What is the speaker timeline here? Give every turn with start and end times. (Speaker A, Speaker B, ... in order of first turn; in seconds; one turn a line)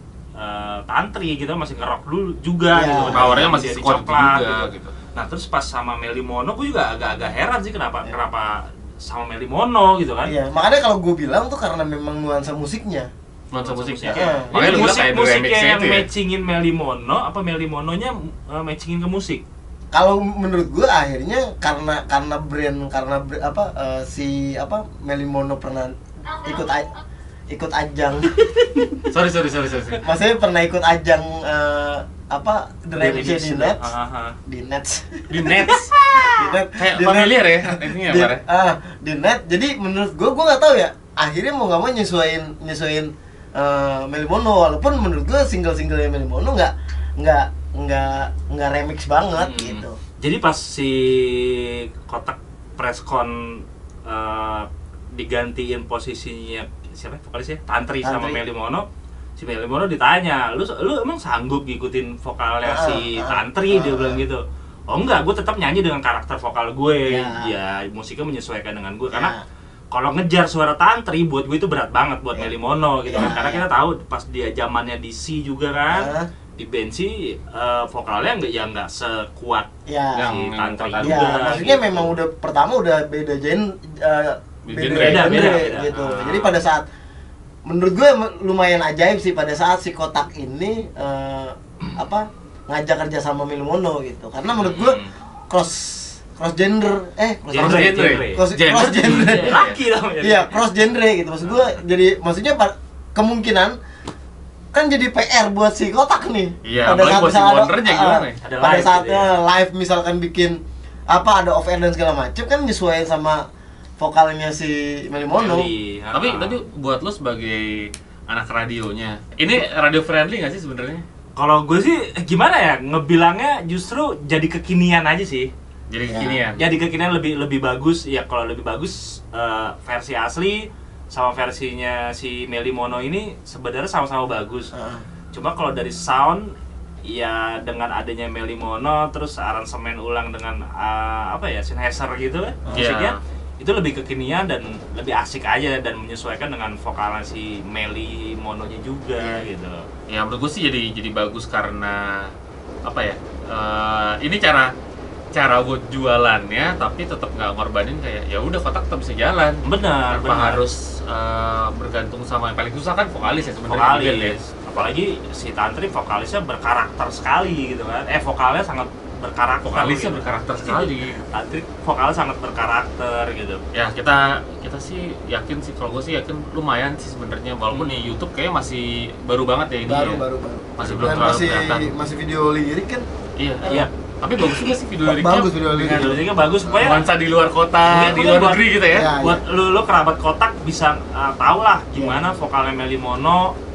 Speaker A: 0.3-10.3
Speaker B: 2.7-3.6
Speaker C: 3.1-4.9
Speaker B: 10.2-13.1
Speaker C: 13.5-16.1
Speaker A: 13.6-19.4
Speaker B: 14.1-15.1
Speaker B: 19.9-26.9
Speaker B: 27.5-28.9
Speaker C: 29.1-30.0
Speaker B: 30.0-33.9
Speaker A: 33.0-34.4
Speaker B: 34.5-50.0
Speaker C: 35.3-38.4
Speaker A: 49.4-58.9
Speaker B: 58.0-58.4
Speaker A: 59.4-69.3
Speaker B: 62.6-64.2
Speaker B: 67.1-67.5
Speaker B: 69.1-69.4
Speaker A: 69.9-79.7
Speaker B: 73.0-73.7
Speaker B: 75.9-76.3
Speaker B: 79.9-80.3
Speaker C: 80.1-81.3
Speaker A: 80.2-82.1
Speaker B: 81.0-86.8
Speaker C: 84.7-85.7
Speaker A: 84.9-86.5
Speaker B: 87.7-95.0
Speaker A: 94.5-95.1
Speaker B: 95.5-99.6
Speaker A: 97.5-98.4
Speaker C: 97.5-99.8
Speaker A: 99.0-100.6
Speaker B: 100.2-103.8
Speaker A: 101.4-101.7
Speaker B: 104.7-113.4
Speaker C: 106.6-108.4
Speaker A: 108.4-109.3
Speaker B: 114.0-115.7
Speaker A: 115.3-116.6
Speaker C: 116.1-121.0
Speaker A: 121.4-125.5
Speaker C: 125.9-126.6
Speaker B: 126.0-126.4
Speaker A: 126.5-134.7
Speaker B: 134.7-135.0
Speaker A: 135.3-136.5
Speaker A: 137.1-149.8
Speaker C: 142.7-143.2
Speaker B: 149.2-149.4
Speaker C: 150.1-152.3
Speaker C: 152.8-154.7
Speaker C: 155.3-164.4
Speaker A: 159.6-160.6
Speaker A: 163.2-173.6
Speaker C: 169.6-171.2
Speaker C: 173.7-180.2
Speaker A: 177.7-178.1
Speaker B: 179.8-183.1
Speaker C: 180.8-181.9
Speaker C: 183.4-186.1
Speaker A: 183.6-183.9
Speaker B: 185.0-186.9
Speaker A: 185.8-187.1
Speaker C: 186.8-189.1
Speaker A: 187.8-193.5
Speaker B: 188.9-189.4
Speaker B: 191.9-192.2